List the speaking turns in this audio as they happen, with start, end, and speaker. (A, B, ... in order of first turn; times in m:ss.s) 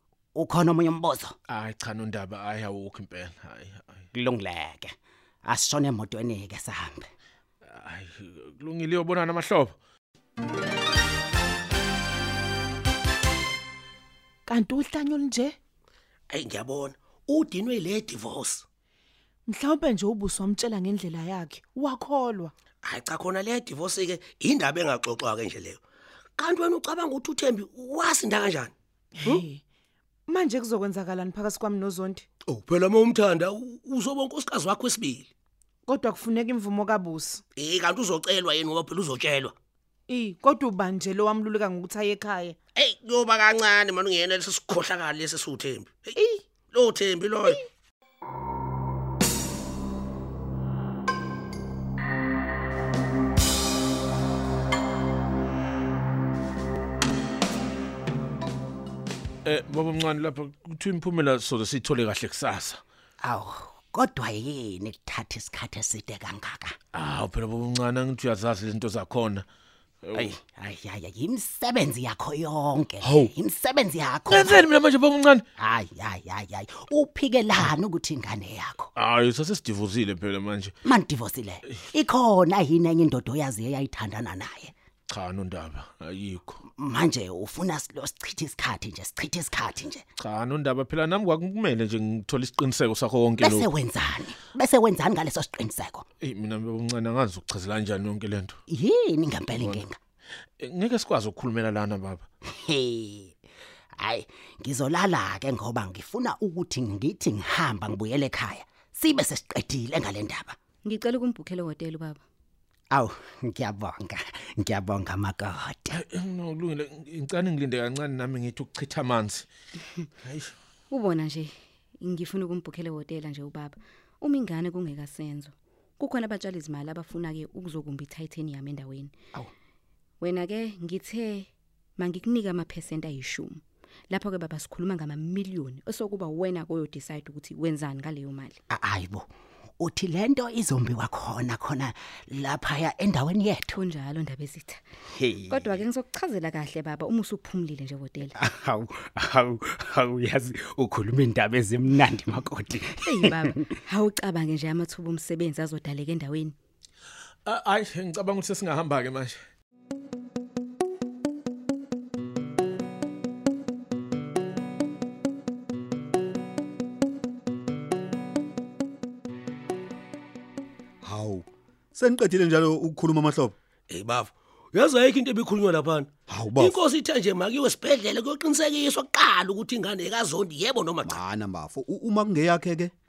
0:00.3-0:01.3 A
0:01.5-0:04.0 B
0:04.1-0:04.9 A
0:05.4-0:07.1 A
0:07.7-0:09.8 B
0:14.5-0:15.6 C
0:16.3-0:18.6 D
0:19.4-0:22.5 C
0:22.8-0:25.8 D
0:26.4-0:29.4 D
0:29.2-0:29.6 C
0:30.3-0:32.2 C
0:32.5-0:35.3 D
0:35.8-0:37.4 C
0:37.6-0:39.5 D
0:40.1-0:42.6 C
0:42.8-0:46.2 D
0:46.2-0:46.4 C
0:46.7-0:47.6 D
0:59.4-1:02.8 B
1:03.2-1:06.8 A
1:06.9-1:09.4 B
1:10.0-1:10.3 B
1:10.1-1:14.6 A
1:13.0-1:13.3 B
1:14.3-1:15.4 B
1:15.6-1:18.9 A
1:19.0-1:20.7 B
1:20.8-1:24.7 A
1:25.1-1:26.6 B
1:26.8-1:30.0 A
1:30.2-1:33.7 B
1:33.4-1:36.0 A
1:36.2-1:38.6 B
1:38.7-1:40.0 A
1:39.5-1:39.8 B
1:40.6-1:42.2 B
1:42.6-1:43.3 A
1:44.0-1:50.6 A
1:50.8-1:52.2 E
1:52.9-1:56.0 A
1:55.9-1:59.4 B
2:00.2-2:00.5 B
2:00.9-2:09.1 E
2:10.2-2:18.6 E
2:18.7-2:19.2 A
2:19.8-2:23.7 A
2:23.7-2:24.8 E
2:25.2-2:25.8 A
2:25.5-2:28.4 E
2:28.4-2:33.5 A
2:33.0-2:36.6 E
2:37.4-2:39.4 B
2:51.0-2:53.5 F
2:53.9-3:01.2 D
2:56.3-2:56.8 F
3:01.0-3:02.9 F